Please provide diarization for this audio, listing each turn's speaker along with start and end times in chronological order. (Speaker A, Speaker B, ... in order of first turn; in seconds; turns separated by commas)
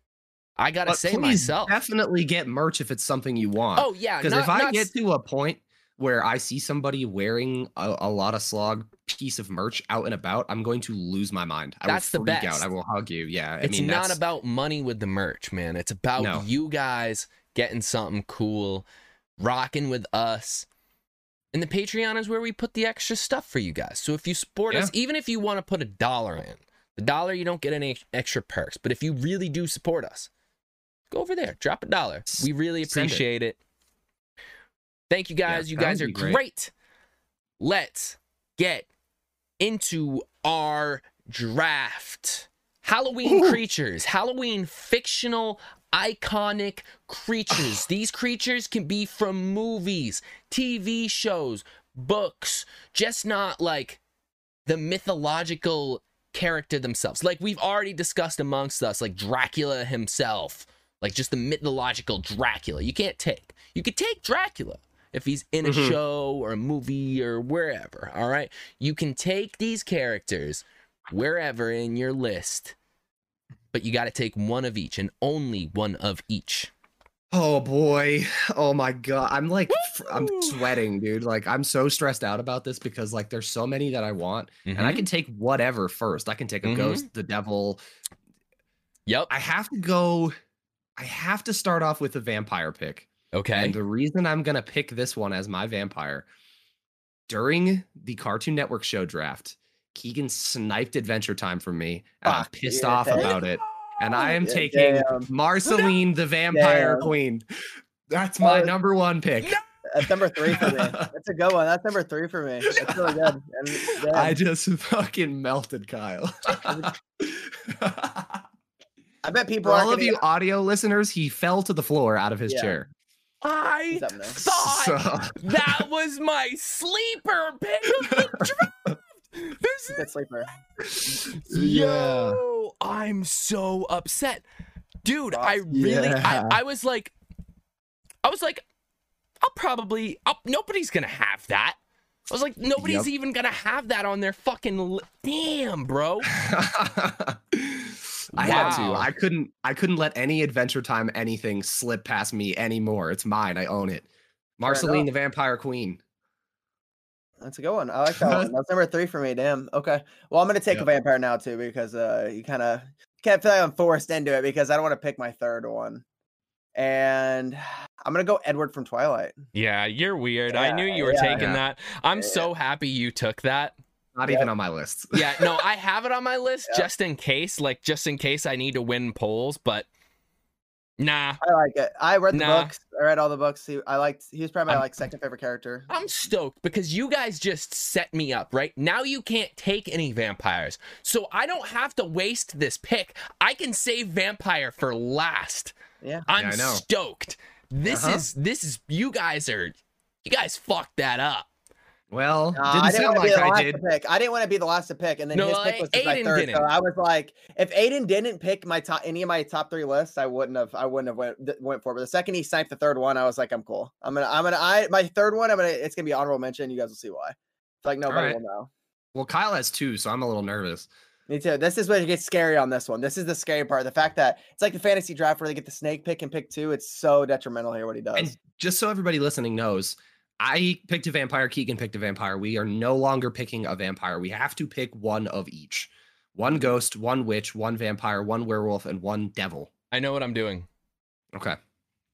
Speaker A: 0.6-1.8, Speaker B: 0.9-14.2, Speaker A: 3.8-4.9, Speaker A: 11.9-12.7, Speaker A: 13.6-18.9, Speaker B: 16.2-16.5, Speaker A: 19.4-20.7, Speaker A: 21.5-30.3, Speaker A: 31.1-33.6, Speaker B: 32.3-33.2, Speaker A: 35.1-36.7, Speaker B: 35.5-36.4, Speaker A: 37.6-38.9, Speaker A: 39.6-54.0, Speaker B: 43.2-43.6, Speaker A: 54.7-72.8, Speaker B: 65.6-66.0, Speaker A: 73.7-76.7, Speaker B: 77.3-87.8, Speaker A: 79.7-80.8, Speaker A: 84.7-85.0, Speaker A: 86.6-87.1, Speaker B: 89.3-90.3, Speaker B: 91.0-96.3, Speaker A: 93.3-93.8, Speaker B: 97.3-107.5, Speaker C: 102.2-103.3, Speaker A: 103.2-104.3, Speaker C: 104.2-105.3, Speaker C: 106.5-107.1, Speaker B: 108.1-109.6, Speaker C: 108.4-108.7, Speaker C: 109.9-114.4, Speaker B: 110.5-111.0, Speaker B: 112.7-113.3, Speaker B: 114.1-118.4, Speaker C: 116.6-117.0, Speaker C: 119.2-120.2, Speaker B: 119.6-122.9, Speaker C: 122.5-122.8, Speaker A: 123.4-130.1, Speaker C: 123.9-124.4, Speaker B: 124.4-125.8, Speaker B: 128.0-128.9, Speaker C: 129.9-130.5, Speaker B: 130.8-132.4, Speaker A: 131.2-134.4, Speaker A: 135.0-137.1, Speaker C: 135.3-135.9, Speaker B: 135.7-136.6, Speaker A: 138.2-138.6, Speaker A: 139.4-141.8, Speaker A: 142.3-146.3, Speaker B: 142.8-143.1, Speaker B: 146.3-154.1, Speaker A: 148.3-149.1, Speaker C: 148.4-148.9, Speaker B: 154.6-156.0, Speaker C: 154.6-155.1, Speaker C: 157.4-166.0, Speaker B: 158.1-158.5, Speaker C: 166.8-169.3, Speaker A: 169.5-173.7, Speaker C: 170.5-171.5, Speaker C: 172.2-172.5, Speaker B: 174.2-175.6, Speaker A: 175.1-179.9, Speaker A: 181.0-181.4, Speaker C: 181.4-185.9, Speaker A: 182.3-182.7, Speaker A: 185.9-195.7, Speaker A: 196.3-201.5, Speaker B: 196.4-196.8, Speaker B: 197.9-198.2, Speaker B: 202.1-203.8, Speaker C: 202.6-218.7, Speaker A: 205.3-206.7, Speaker B: 218.1-218.4, Speaker B: 219.1-220.9, Speaker C: 221.3-228.3, Speaker B: 228.2-239.7, Speaker A: 239.9-240.7